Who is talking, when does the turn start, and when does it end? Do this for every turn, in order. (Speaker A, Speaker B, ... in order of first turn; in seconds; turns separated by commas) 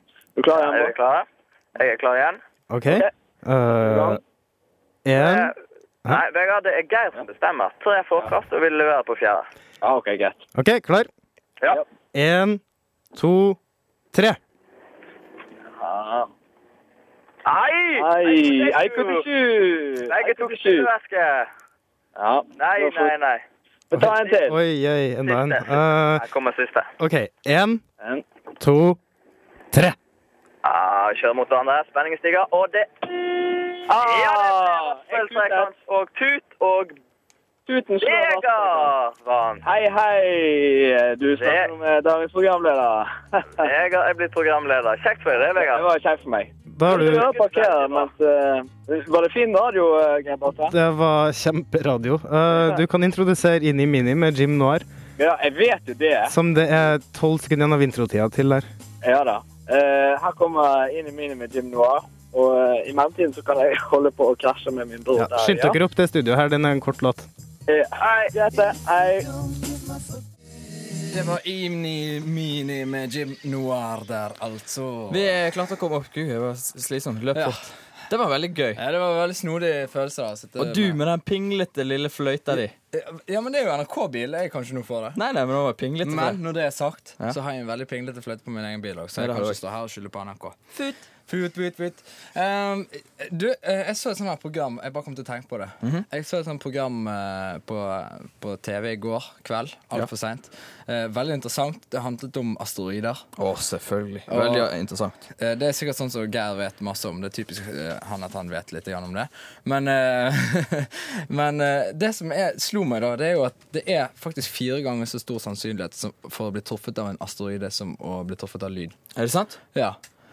Speaker A: 0.4-0.9, Speaker B: 0.5-2.4, Speaker C: 2.7-4.2, Speaker A: 3.8-4.2, Speaker C: 5.0-5.5, Speaker B: 5.1-5.5, Speaker B: 6.0-9.4, Speaker A: 9.8-10.4, Speaker C: 10.5-11.1, Speaker C: 12.1-12.6, Speaker C: 13.2-13.6, Speaker C: 14.1-14.4, Speaker A: 15.8-16.3, Speaker B: 17.4-19.2, Speaker A: 17.9-20.9, Speaker B: 20.1-21.5, Speaker A: 22.2-23.1, Speaker B: 22.6-23.4, Speaker A: 23.9-24.6, Speaker C: 23.9-26.2, Speaker B: 25.2-26.9, Speaker C: 27.0-27.8, Speaker C: 28.6-29.0, Speaker B: 30.6-33.1, Speaker A: 33.9-35.7, Speaker B: 33.9-36.9, Speaker A: 37.7-38.9, Speaker B: 38.0-39.6, Speaker A: 39.6-43.7, Speaker B: 41.4-41.7, Speaker B: 43.6-45.8, Speaker A: 45.5-50.7, Speaker C: 46.7-47.3, Speaker B: 46.9-48.0, Speaker C: 50.7-54.8, Speaker A: 52.5-52.8, Speaker A: 55.2-56.3, Speaker C: 56.3-58.7, Speaker A: 59.0-65.8, Speaker C: 65.2-67.3, Speaker A: 67.7-69.3, Speaker D: 71.1-75.3, Speaker E: 75.1-78.8, Speaker D: 77.3-77.6, Speaker D: 78.8-81.0, Speaker E: 80.6-82.7, Speaker D: 82.9-85.2, Speaker E: 85.1-86.4, Speaker D: 86.0-90.6, Speaker E: 89.2-89.6, Speaker D: 91.3-103.3, Speaker E: 103.4-105.1, Speaker D: 104.3-104.7, Speaker D: 105.4-118.9, Speaker E: 119.1-119.6